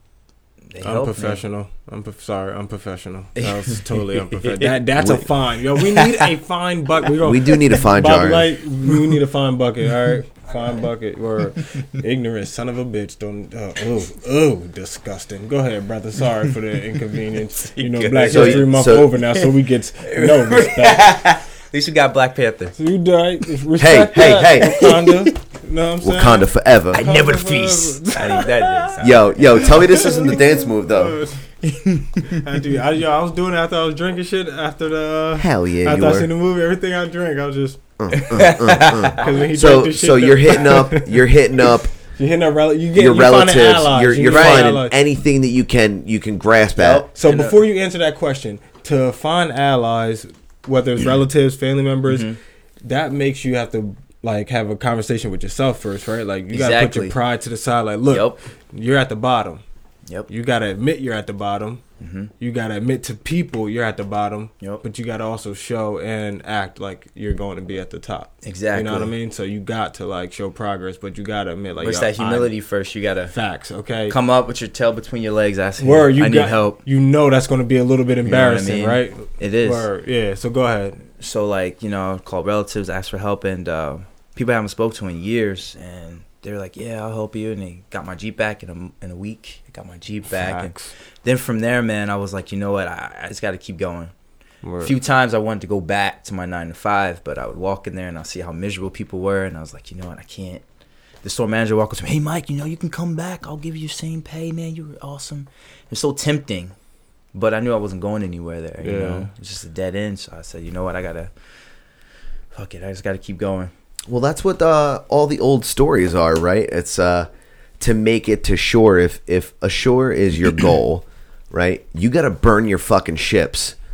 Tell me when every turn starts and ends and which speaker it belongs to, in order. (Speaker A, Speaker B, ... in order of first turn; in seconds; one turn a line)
Speaker A: 0.7-1.4
Speaker B: 0.8-21.2
Speaker A: 3.4-4.8
Speaker A: 5.7-6.3
Speaker C: 7.2-8.5
Speaker A: 17.8-19.5
Speaker C: 18.2-19.1
Speaker A: 20.1-22.8
Speaker B: 22.8-28.9
Speaker C: 23.8-24.9
Speaker C: 26.0-27.0
Speaker A: 26.9-30.1
Speaker C: 29.0-31.2
Speaker B: 29.9-31.4
Speaker A: 31.6-32.4
Speaker B: 32.3-37.8
Speaker C: 35.4-36.3
Speaker C: 38.0-41.9
Speaker A: 38.1-39.3
Speaker B: 39.2-41.2
Speaker B: 42.2-45.0
Speaker C: 43.0-47.0
Speaker A: 44.3-44.7
Speaker A: 46.8-47.6
Speaker B: 47.2-52.3
Speaker A: 52.1-52.4
Speaker B: 52.8-59.6
Speaker A: 56.5-57.2
Speaker A: 58.1-58.4
Speaker B: 60.3-61.8
Speaker A: 62.0-62.3
Speaker B: 62.4-72.5
Speaker A: 68.4-69.1
Speaker A: 71.8-73.3
Speaker B: 73.3-74.2
Speaker A: 74.1-76.8
Speaker B: 75.8-81.0
Speaker A: 78.2-79.9
Speaker A: 81.2-94.1
Speaker B: 90.3-90.9
Speaker B: 94.6-94.9
Speaker A: 94.8-100.6
Speaker A: 101.2-106.8
Speaker A: 107.3-111.3
Speaker B: 108.8-109.3
Speaker A: 112.5-113.7
Speaker C: 114.1-117.3
Speaker C: 117.8-123.8